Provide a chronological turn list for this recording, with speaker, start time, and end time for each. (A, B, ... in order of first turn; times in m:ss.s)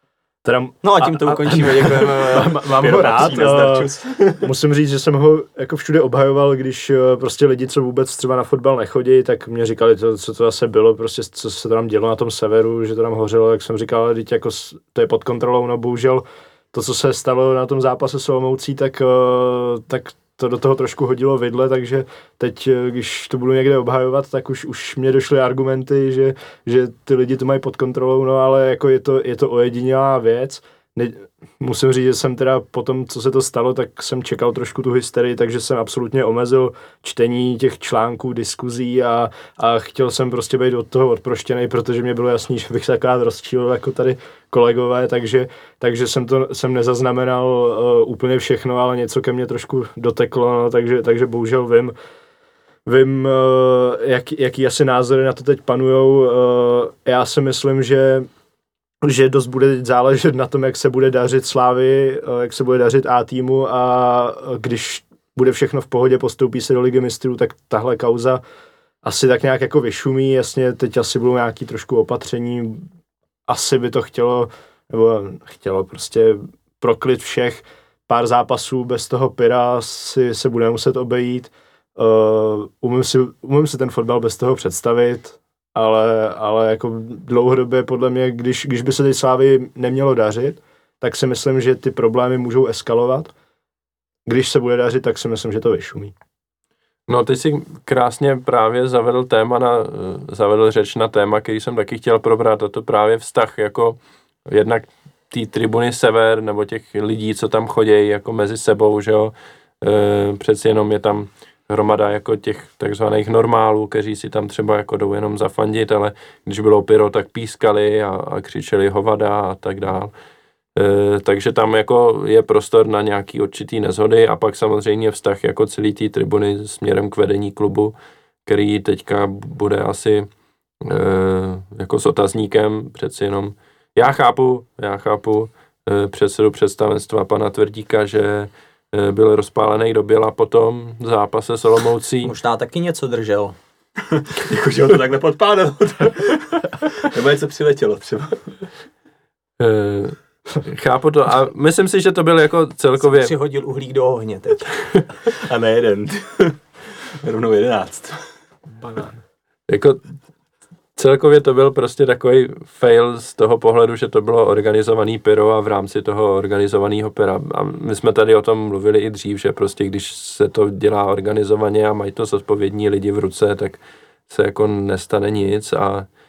0:00.4-0:51.9 A
0:00.8-0:03.7 B
0:02.8-0:04.5 C
0:52.9-0:58.3 A
0:59.0-1:08.4 A
1:09.0-1:12.9 A
1:13.5-1:33.3 A
1:34.3-1:36.1 A
1:37.1-2:00.1 D
2:00.8-2:07.9 D
2:08.5-2:10.3 D
2:10.8-2:22.3 D
2:22.2-2:23.6 B
2:24.1-2:28.6 C
2:29.6-2:33.3 D
2:33.0-2:34.7 B
2:35.3-2:38.3 C
2:38.8-2:39.1 A
2:39.7-2:40.1 D
2:41.0-2:56.1 D